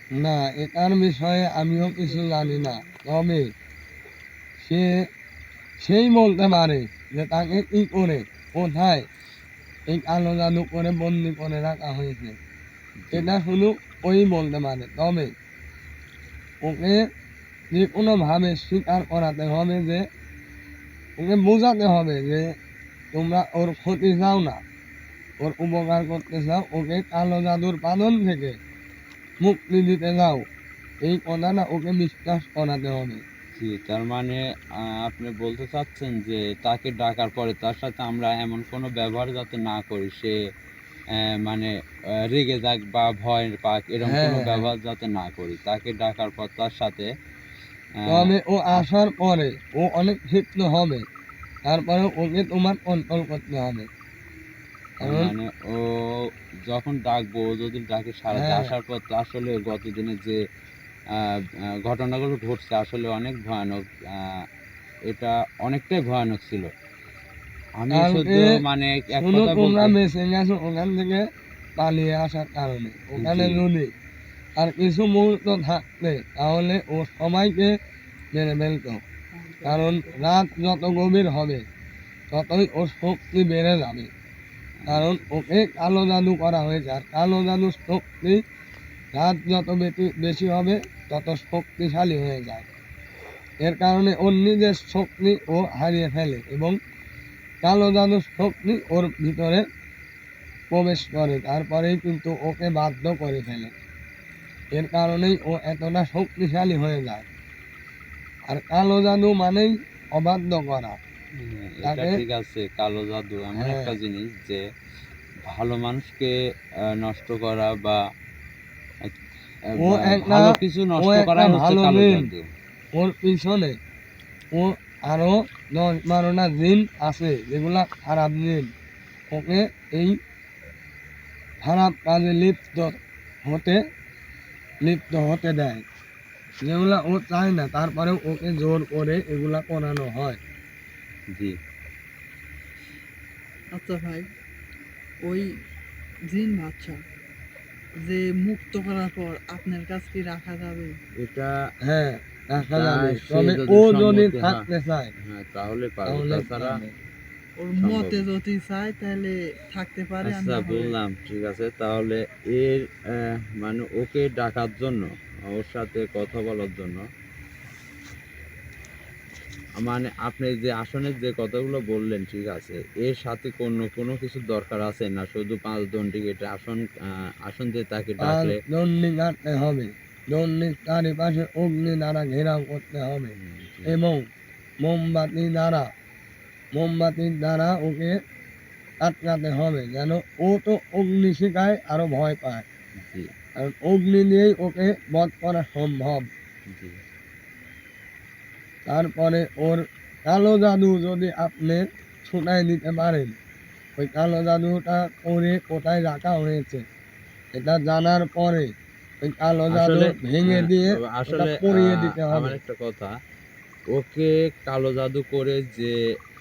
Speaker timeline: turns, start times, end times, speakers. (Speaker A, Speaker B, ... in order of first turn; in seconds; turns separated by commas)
Speaker A: 0.1-3.5, Speaker B: 1.8-2.9, Speaker A: 4.6-5.1, Speaker A: 5.8-9.1, Speaker A: 9.9-12.4, Speaker C: 13.0-13.3, Speaker A: 13.1-15.3, Speaker A: 16.6-17.1, Speaker A: 17.7-20.1, Speaker A: 21.2-22.6, Speaker A: 23.1-24.6, Speaker A: 25.4-28.6, Speaker A: 29.4-30.5, Speaker A: 31.0-33.2, Speaker C: 33.6-40.4, Speaker C: 41.1-47.1, Speaker A: 44.0-44.7, Speaker C: 48.0-48.3, Speaker A: 48.1-51.0, Speaker A: 51.6-53.9, Speaker A: 55.0-55.3, Speaker C: 55.0-60.4, Speaker A: 58.3-58.7, Speaker C: 61.1-64.4, Speaker C: 65.1-66.7, Speaker C: 67.8-70.0, Speaker A: 67.9-68.6, Speaker A: 69.1-73.9, Speaker C: 73.2-73.7, Speaker A: 74.5-77.8, Speaker A: 78.3-79.0, Speaker B: 79.3-80.4, Speaker A: 79.6-81.7, Speaker A: 82.3-84.1, Speaker C: 84.8-85.1, Speaker A: 84.9-88.4, Speaker A: 89.1-92.7, Speaker A: 93.6-96.8, Speaker A: 97.6-99.7, Speaker A: 100.7-103.7, Speaker A: 104.7-107.2, Speaker A: 108.5-111.0, Speaker C: 111.3-114.6, Speaker A: 111.8-112.2, Speaker A: 113.5-113.9, Speaker C: 115.5-118.0, Speaker C: 119.6-122.5, Speaker A: 119.8-122.3, Speaker A: 122.9-123.8, Speaker A: 124.5-128.7, Speaker A: 129.3-130.2, Speaker A: 131.6-133.8, Speaker A: 134.8-135.8, Speaker A: 136.6-140.4, Speaker B: 143.7-144.2, Speaker B: 145.2-145.5, Speaker B: 146.3-147.0, Speaker B: 148.0-151.0, Speaker C: 151.2-151.7, Speaker A: 151.8-155.1, Speaker C: 152.6-156.8, Speaker A: 156.1-156.9, Speaker B: 157.6-160.9, Speaker C: 157.8-158.2, Speaker C: 160.2-167.1, Speaker C: 169.8-178.6, Speaker A: 178.2-183.3, Speaker C: 183.4-184.0, Speaker A: 183.8-184.3, Speaker A: 184.8-185.9, Speaker A: 186.7-188.2, Speaker A: 189.0-192.6, Speaker C: 193.0-193.3, Speaker A: 193.6-196.3, Speaker C: 196.7-197.0, Speaker A: 198.8-203.4, Speaker A: 204.0-206.8, Speaker A: 207.5-212.6, Speaker C: 209.7-213.1, Speaker C: 213.9-216.0